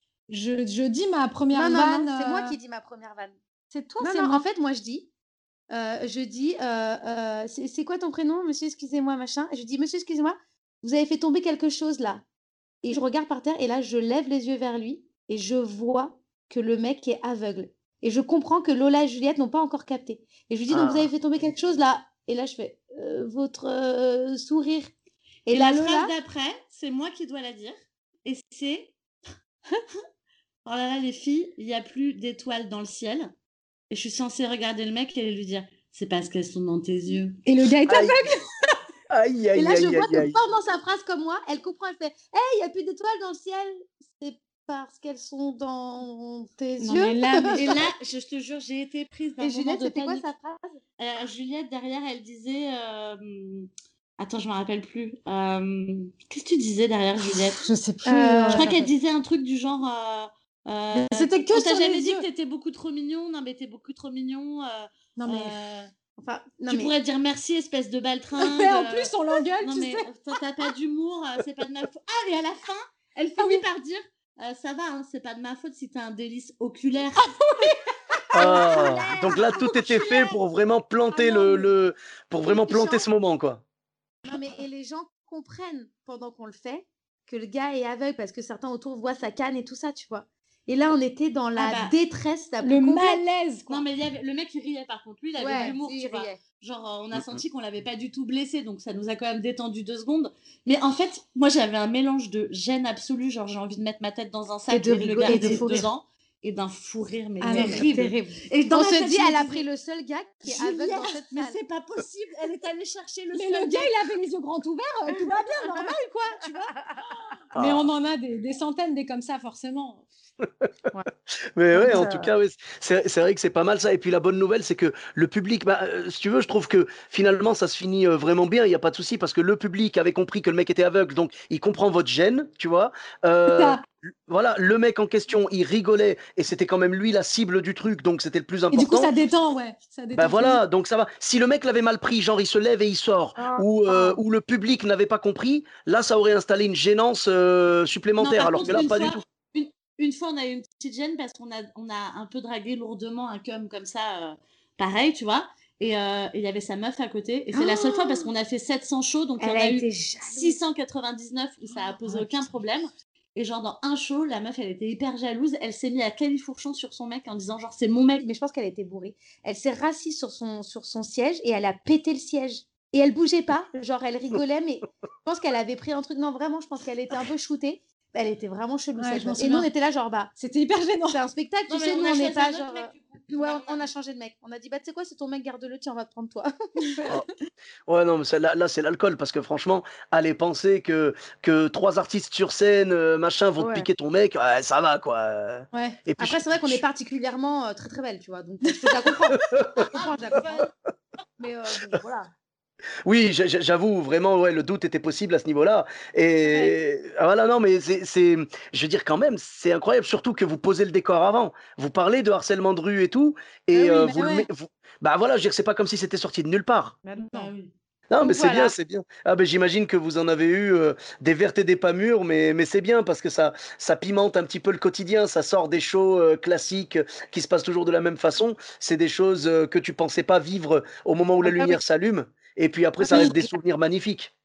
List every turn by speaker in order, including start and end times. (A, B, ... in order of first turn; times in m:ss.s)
0:00.3-0:02.6 A
0:01.5-0:03.4 B
0:03.7-0:04.4 A
0:04.0-0:05.1 B
0:05.7-0:12.2 B
0:12.8-0:24.9 B
0:20.7-0:21.1 C
0:25.5-0:26.1 B
0:25.5-0:29.0 D
0:30.6-0:33.3 D
0:33.9-0:37.4 D
0:37.4-0:38.7 A
0:37.9-0:38.2 C
0:39.1-0:40.4 C
0:39.6-0:47.9 B
0:46.8-0:47.6 A
0:47.6-0:50.3 D
0:49.4-0:50.8 B
0:51.0-0:57.6 D
0:57.6-0:58.9 A
0:58.0-0:58.7 B
0:58.6-1:05.9 D
1:00.9-1:02.2 A
1:05.2-1:05.6 A
1:06.2-1:06.9 B
1:06.7-1:17.4 D
1:08.4-1:10.1 A
1:13.4-1:13.6 A
1:17.2-1:20.2 A
1:18.3-1:23.6 C
1:18.4-1:19.3 B
1:21.1-1:21.7 A
1:22.4-1:23.0 B
1:24.2-1:33.2 B
1:31.6-1:31.9 D
1:32.6-1:33.8 A
1:33.7-1:49.6 D
1:35.4-1:36.4 B
1:37.1-1:37.4 C
1:44.7-1:45.8 B
1:45.2-1:45.9 A
1:47.4-1:47.9 A
1:47.5-1:51.6 B
1:50.4-1:53.9 D
1:53.3-1:56.7 A
1:57.6-1:57.9 C
1:57.6-2:00.1 A
2:01.6-2:19.1 C
2:01.7-2:02.3 B
2:13.5-2:13.8 A
2:18.7-2:20.6 A
2:20.2-2:29.2 C
2:23.4-2:24.2 B
2:28.2-2:28.7 A
2:28.4-2:48.2 D
2:37.5-2:38.3 B
2:39.4-2:40.6 B
2:48.2-3:00.3 B
2:59.0-2:59.7 A
3:00.4-3:01.2 A
3:01.1-3:07.2 B
3:01.7-3:03.9 D
3:07.9-3:16.8 C
3:13.6-3:13.9 B
3:15.7-3:16.0 A
3:16.2-3:20.7 B
3:19.5-3:19.8 C
3:19.9-3:20.7 D
3:21.4-3:22.3 B
3:23.0-3:36.9 C
3:33.8-3:34.5 A
3:33.8-3:34.2 B
3:37.0-3:37.5 B
3:37.3-3:37.7 D
3:38.1-3:54.3 C
3:38.2-3:38.7 B
3:51.4-3:51.8 B
3:53.0-3:53.5 B